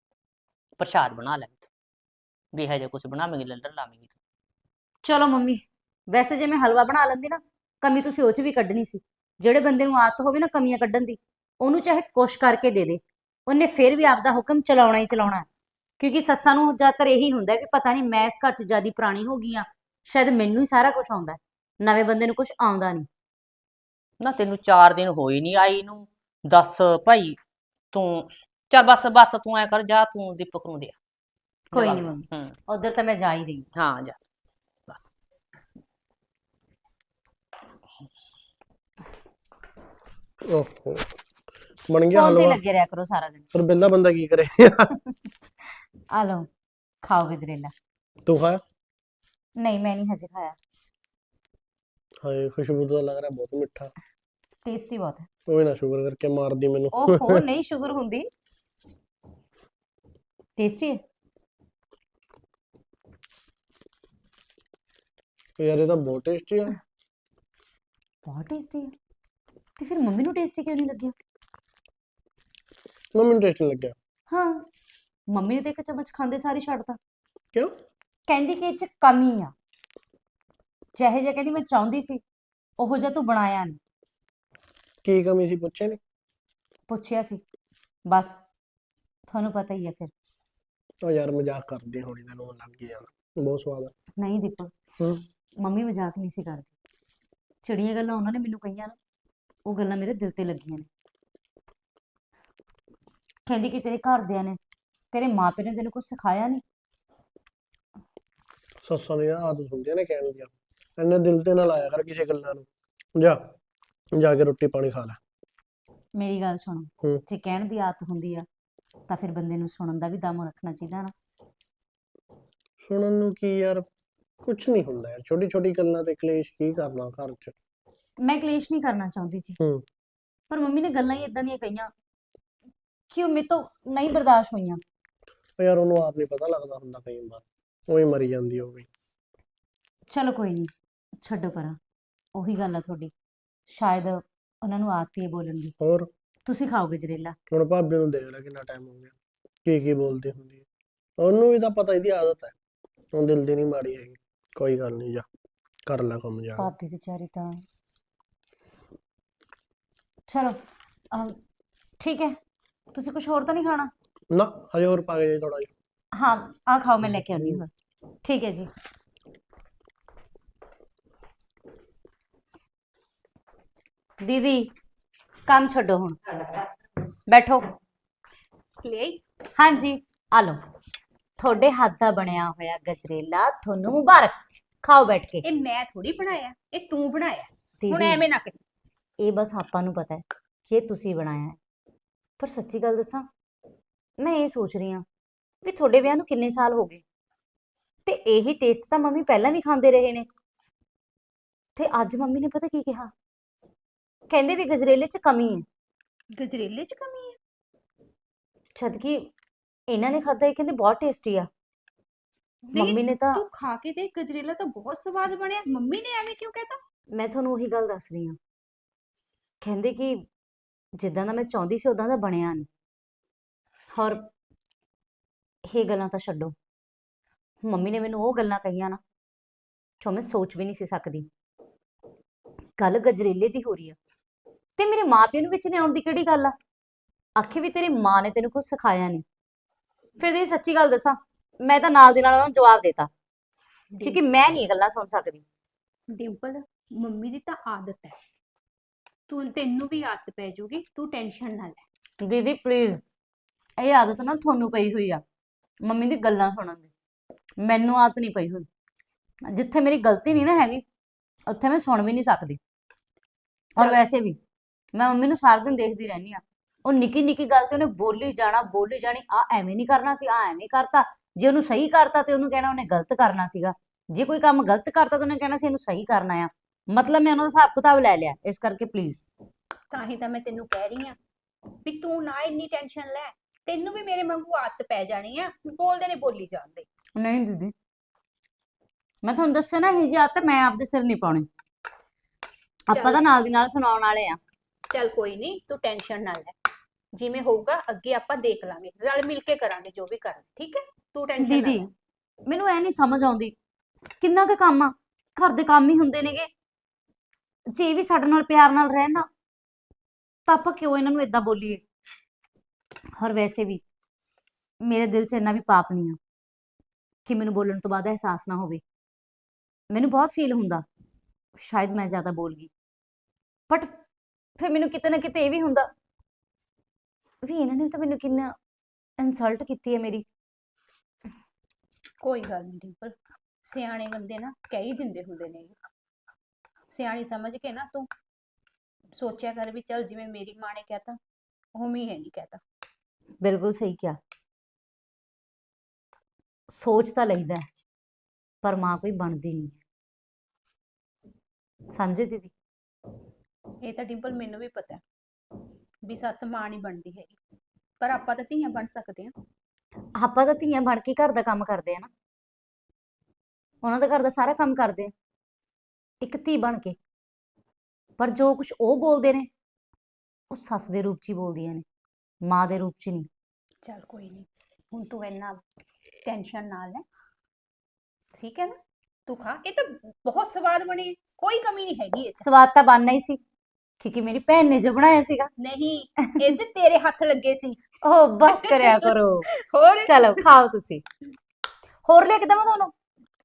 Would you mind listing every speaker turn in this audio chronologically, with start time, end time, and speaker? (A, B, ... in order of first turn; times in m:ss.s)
0:00.8-0:01.7 A
0:02.5-0:04.2 A
0:05.0-0:15.5 B
0:16.0-0:23.1 B
0:24.2-0:27.4 A
0:27.9-0:31.0 A
0:31.7-0:32.5 A
0:31.7-0:33.7 B
0:33.8-0:34.2 A
0:40.5-0:41.1 C
0:41.9-0:42.6 C
0:42.1-0:43.4 B
0:43.5-0:44.9 C
0:46.1-0:46.5 B
0:47.0-0:47.7 B
0:48.2-0:48.6 C
0:49.6-0:50.6 B
0:52.2-0:53.9 C
0:54.6-0:55.3 B
0:55.5-0:57.4 C
0:56.9-0:58.3 B
1:00.6-1:01.0 B
1:05.6-1:06.7 C
1:08.2-1:08.9 B
1:09.8-1:11.1 B
1:13.1-1:13.9 C
1:14.3-1:14.6 B
1:15.3-1:17.0 B
1:18.3-1:19.5 B
1:21.0-1:22.2 B
1:22.8-1:23.8 B
1:25.0-1:26.0 C
1:26.9-1:27.4 B
1:28.1-1:28.4 B
1:29.3-1:30.1 B
1:31.0-1:33.9 C
1:34.2-1:34.7 B
1:35.6-1:36.7 B
1:37.6-1:39.0 B
1:39.6-1:40.9 B
1:43.4-1:44.6 B
1:45.1-1:46.6 B
1:48.8-1:53.4 C
1:54.2-1:55.2 C
1:56.2-1:58.5 B
1:59.1-2:01.1 B
2:02.8-2:03.8 C
2:04.4-2:07.5 C
2:08.2-2:09.6 B
2:09.6-2:09.8 C
2:10.5-2:11.9 B
2:13.1-2:14.8 B
2:15.6-2:18.9 C
2:20.1-2:21.8 B
2:22.3-2:23.1 B
2:23.7-2:25.7 B
2:25.8-2:26.1 C
2:26.4-2:27.4 B
2:27.5-2:29.1 C
2:29.6-2:30.6 C
2:31.2-2:32.5 C
2:33.1-2:35.2 C
2:35.8-2:36.7 C
2:36.6-2:37.6 B
2:40.3-2:40.6 B
2:42.0-2:42.3 B
2:42.9-2:43.9 B
2:44.3-2:45.7 C
2:46.2-2:47.7 B
2:47.1-2:47.6 C
2:48.2-2:48.7 B
2:54.2-2:54.7 B
2:55.4-2:56.5 B
2:57.3-2:57.6 B
2:58.8-2:59.2 D
2:59.5-3:00.6 B
3:01.4-3:05.4 B
3:05.4-3:08.6 D
3:07.8-3:08.2 B
3:09.2-3:11.6 B
3:12.4-3:13.3 B
3:14.2-3:15.0 B
3:15.6-3:17.0 B
3:18.0-3:20.3 B
3:21.7-3:23.1 B
3:24.3-3:25.6 B
3:26.4-3:27.4 D
3:28.7-3:29.3 B
3:29.9-3:31.5 B
3:32.6-3:36.8 D
3:32.7-3:33.4 B
3:37.1-3:38.4 B
3:39.6-3:40.2 B
3:41.0-3:42.7 B
3:43.9-3:44.2 B
3:45.7-3:46.5 B
3:47.6-3:49.0 B
3:50.0-3:51.3 B
3:52.8-3:54.0 B
3:54.8-3:56.5 B
3:57.4-3:59.2 B
4:00.2-4:03.1 B
4:03.9-4:04.2 D
4:04.0-4:05.4 B
4:06.1-4:08.2 D
4:09.3-4:11.8 D
4:12.2-4:13.0 B
4:13.8-4:15.2 B
4:15.8-4:16.9 B
4:17.6-4:18.7 B
4:19.5-4:20.8 B
4:21.5-4:22.6 B
4:23.8-4:24.4 B
4:24.9-4:39.2 B
4:39.9-4:41.2 D
4:41.8-4:46.8 D
4:47.2-4:47.7 B
4:49.2-4:51.4 B
4:52.9-4:54.4 B
4:52.9-4:53.2 D
4:54.9-4:56.5 D
4:57.2-5:01.8 D
5:01.4-5:01.9 B
5:02.4-5:03.5 B
5:04.2-5:06.5 B
5:07.7-5:09.3 B
5:10.5-5:11.8 B
5:13.2-5:13.8 B
5:14.8-5:16.2 B
5:17.2-5:18.8 B
5:19.9-5:20.8 B
5:21.6-5:22.7 B
5:23.7-5:23.9 B
5:24.6-5:25.9 B
5:27.4-5:28.5 B
5:29.2-5:30.2 B
5:32.2-5:35.8 D
5:36.9-5:38.1 D
5:39.2-5:41.2 D
5:41.7-5:42.6 D
5:43.4-5:44.2 B
5:46.7-5:47.6 B
5:48.6-5:49.8 B
5:51.9-5:52.5 B
5:53.8-5:55.0 D
5:56.0-5:57.4 D
5:58.0-5:59.3 D
6:00.2-6:02.1 B
6:03.8-6:05.1 B
6:06.2-6:07.0 B
6:08.2-6:09.5 B
6:10.5-6:11.8 B
6:12.4-6:13.3 B
6:13.8-6:15.6 D
6:16.2-6:17.0 D
6:18.4-6:18.8 D
6:19.3-6:22.4 D
6:22.4-6:23.4 B
6:24.0-6:25.5 B
6:25.6-6:27.8 D
6:28.0-6:29.5 B
6:28.5-6:30.5 D
6:30.0-6:31.0 B
6:32.0-6:32.9 B